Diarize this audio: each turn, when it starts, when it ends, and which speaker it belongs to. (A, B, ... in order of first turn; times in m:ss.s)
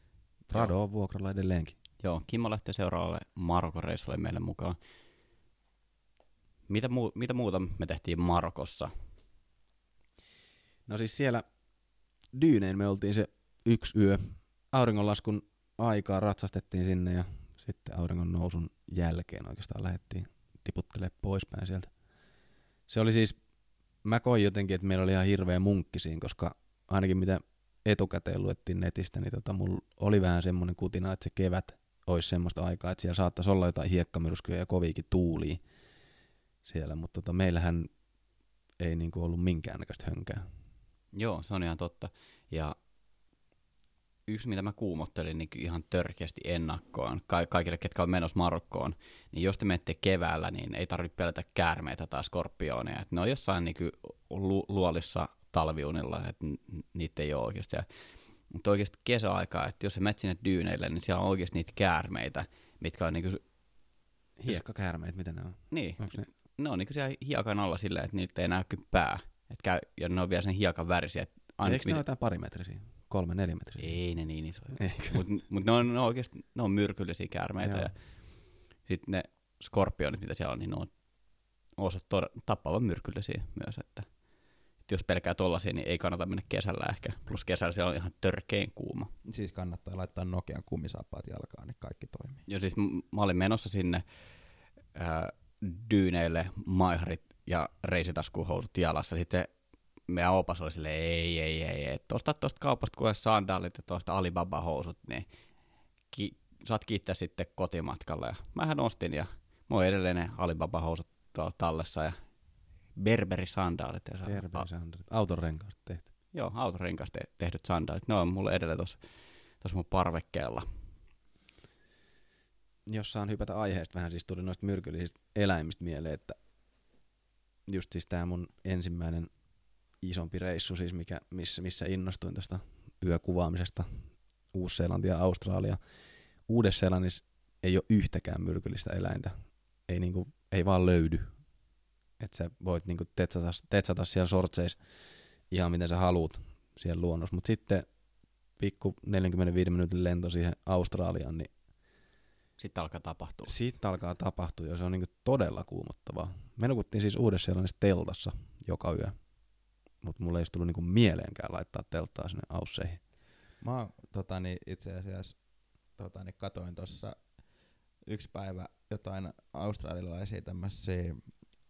0:00.5-0:01.8 A
0:02.0-0:04.8 B
0:06.7-0:08.9 B
0:10.9-0:11.5 A
0:12.3-0:21.9 A
0:22.9-0:23.4 A
0:24.0-0:35.6 A
0:36.6-0:37.9 A
0:38.8-0:40.5 A
0:41.1-0:42.8 B
0:44.3-0:57.9 B
0:58.5-1:03.4 B
1:04.4-1:06.3 A
1:05.7-1:12.0 B
1:11.6-1:14.0 A
1:13.8-1:20.9 B
1:14.8-1:15.2 A
1:17.6-1:17.9 A
1:21.6-1:24.1 B
1:24.8-1:29.1 B
1:29.2-1:32.4 C
1:32.5-1:34.0 B
1:34.9-1:39.5 B
1:40.1-1:45.3 B
1:46.1-1:52.2 B
1:53.0-1:54.7 B
1:54.2-1:56.1 A
1:56.3-2:00.7 B
2:02.9-2:06.4 A
2:07.7-2:09.3 A
2:10.0-2:15.8 A
2:16.4-2:21.5 A
2:22.2-2:24.8 A
2:25.5-2:27.9 A
2:28.6-2:31.5 A
2:32.6-2:33.5 B
2:33.5-2:39.2 A
2:40.0-2:43.0 A
2:43.6-2:47.3 C
2:48.0-2:51.4 C